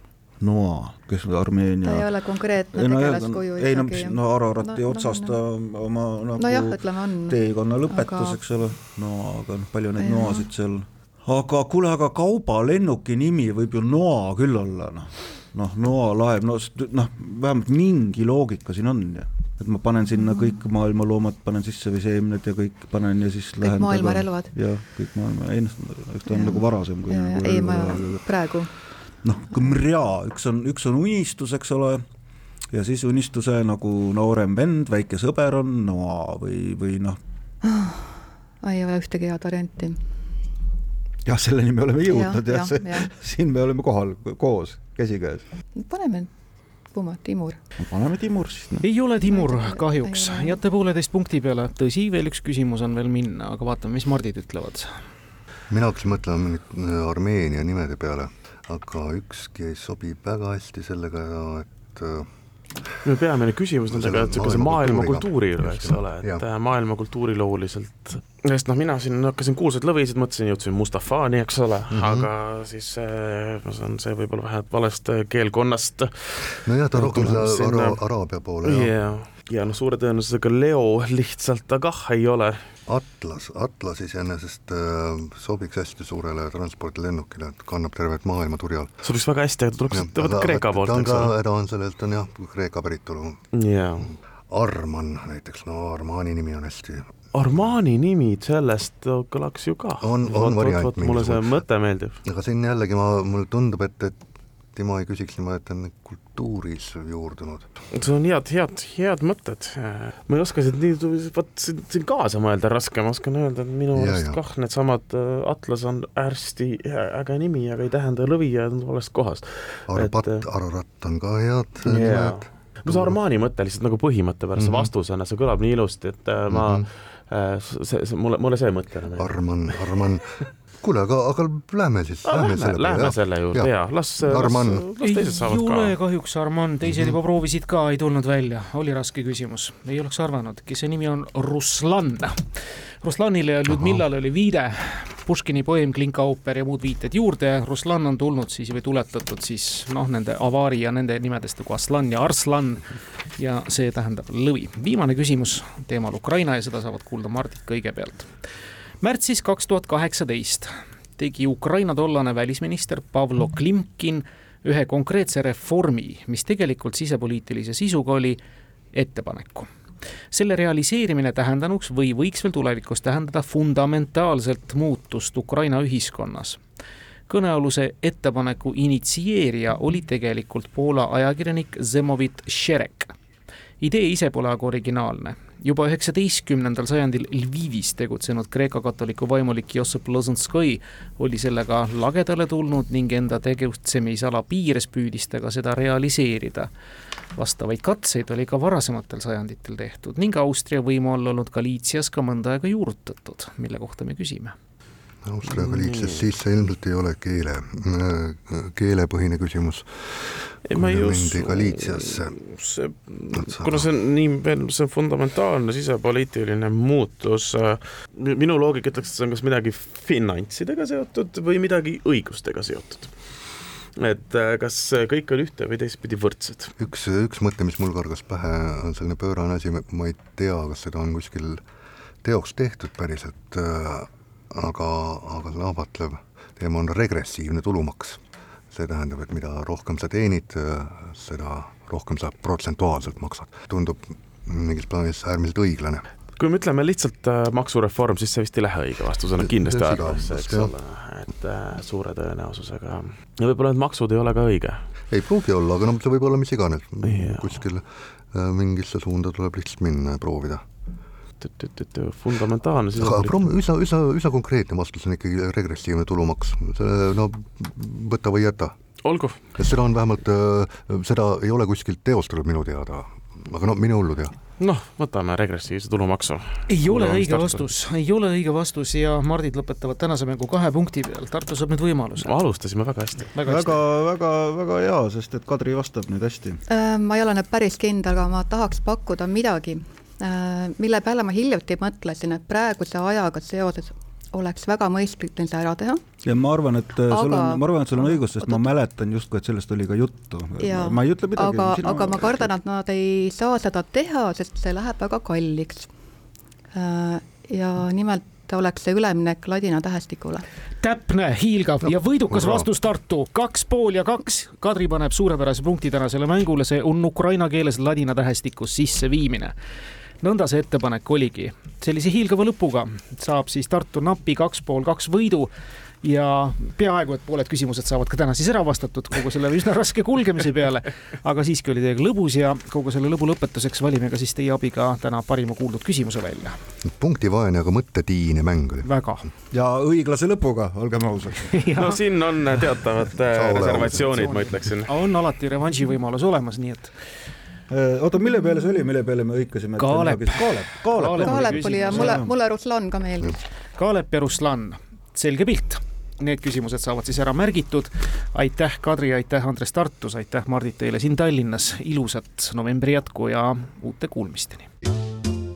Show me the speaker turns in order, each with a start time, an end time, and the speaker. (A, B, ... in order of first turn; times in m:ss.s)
0:00.4-0:02.1 A
0:01.8-0:05.4 B
0:02.7-0:28.2 A
0:06.4-0:08.4 B
0:10.0-0:10.4 B
0:23.6-0:24.5 B
0:26.3-0:28.7 B
0:29.2-0:32.0 A
0:32.7-0:37.2 A
0:37.6-0:40.0 B
0:41.2-0:45.4 A
0:42.0-0:43.1 B
0:45.8-0:46.3 B
0:46.9-0:47.6 B
0:47.8-0:48.8 A
0:48.8-0:54.9 C
0:49.3-0:50.6 B
0:55.7-1:02.3 D
1:03.0-1:18.0 E
1:03.9-1:06.4 D
1:11.9-1:12.3 D
1:16.6-1:18.9 D
1:18.6-1:22.6 E
1:22.9-1:29.0 D
1:29.0-1:31.3 E
1:29.9-1:33.4 D
1:33.5-1:34.1 E
1:34.5-1:37.6 D
1:37.3-1:42.2 E
1:40.0-1:41.6 D
1:42.2-1:44.2 D
1:44.7-1:47.7 D
1:47.9-2:00.4 E
1:53.9-1:54.4 D
1:59.9-2:03.2 D
2:01.8-2:09.8 E
2:04.6-2:04.9 D
2:06.5-2:06.9 D
2:09.1-2:14.9 D
2:12.2-2:15.9 E
2:15.0-2:22.4 C
2:23.0-2:38.3 C
2:39.0-2:48.4 C
2:48.9-2:49.7 C
2:50.3-2:56.6 C
2:57.3-3:03.1 C
3:03.8-3:16.7 C
3:17.4-3:24.5 C
3:25.2-3:32.3 D
3:25.4-3:26.3 E
3:30.6-3:43.2 E
3:33.3-3:33.8 D
3:44.0-3:46.7 E
3:46.8-3:51.6 D
3:52.2-4:06.1 D
4:06.4-4:14.8 E
4:09.4-4:10.7 D
4:15.1-4:20.6 D
4:17.0-4:17.5 E
4:21.4-4:23.5 E
4:22.9-4:28.7 D
4:29.0-4:29.4 E
4:29.6-4:34.4 D
4:34.6-4:37.7 E
4:36.7-4:42.3 C
4:42.2-4:43.3 E
4:43.3-4:43.8 C
4:43.4-4:46.6 A
4:46.7-4:56.0 B
4:56.2-5:02.5 A
4:57.1-4:58.6 B
5:00.6-5:05.9 B
5:06.7-5:10.4 B
5:10.8-5:19.5 C
5:12.3-5:12.6 D
5:20.2-5:25.5 C
5:26.0-5:36.6 C
5:36.8-5:38.9 D
5:38.8-5:39.3 C
5:39.5-5:41.6 A
5:41.5-5:42.0 C
5:41.8-5:44.9 E
5:43.2-5:44.4 D
5:43.6-5:46.9 C
5:47.7-5:52.3 A
5:49.8-5:52.2 C
5:51.2-5:53.4 B
5:53.8-6:04.7 C